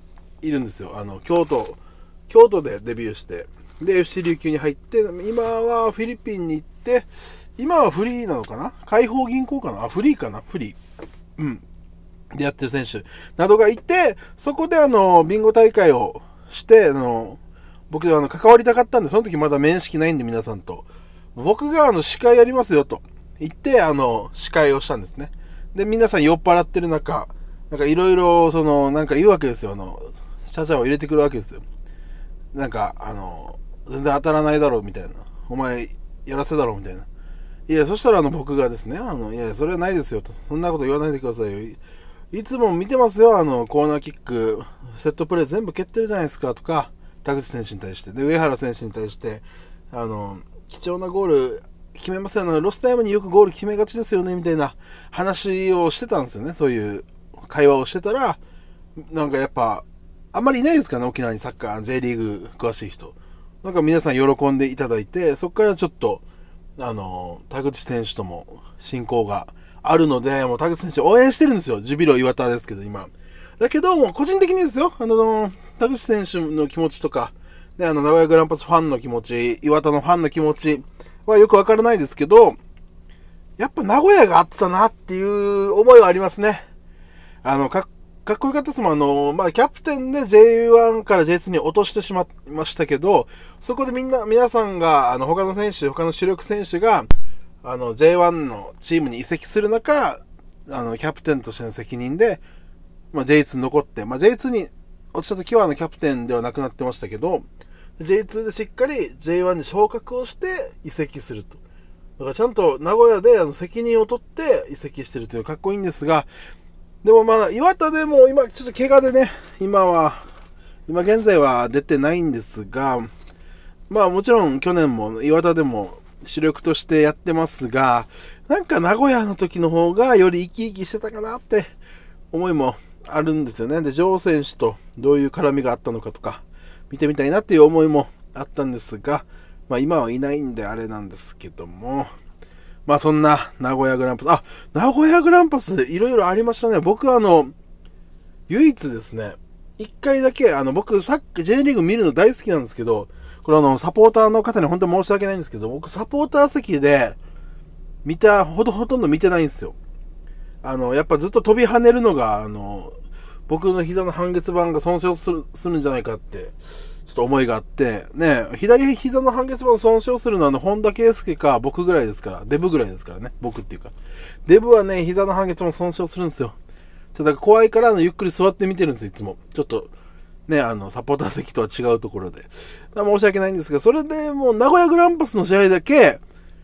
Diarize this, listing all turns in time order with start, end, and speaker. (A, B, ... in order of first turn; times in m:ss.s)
0:00.4-0:10.8 A
0:11.4-0:11.6 A
0:12.3-0:31.6 A
0:32.5-0:37.1 A
0:37.7-0:41.8 A
0:42.3-0:58.4 A
0:59.0-1:06.2 A
1:06.8-1:22.6 A
1:23.6-1:26.6 A
1:27.4-1:37.1 A
1:37.6-1:42.4 A
1:43.1-1:47.5 A
1:48.0-1:51.6 A
1:52.2-1:56.3 A
1:57.0-2:00.2 A
2:00.9-2:03.1 A
2:03.9-2:11.7 A
2:12.3-2:22.1 A
2:22.9-2:27.5 A
2:28.5-2:37.2 A
2:38.0-2:39.8 A
2:40.6-2:43.0 A
2:43.5-2:46.6 A
2:47.1-2:53.9 A
2:54.5-2:56.6 A
2:57.1-2:59.9 A
3:00.5-3:06.2 A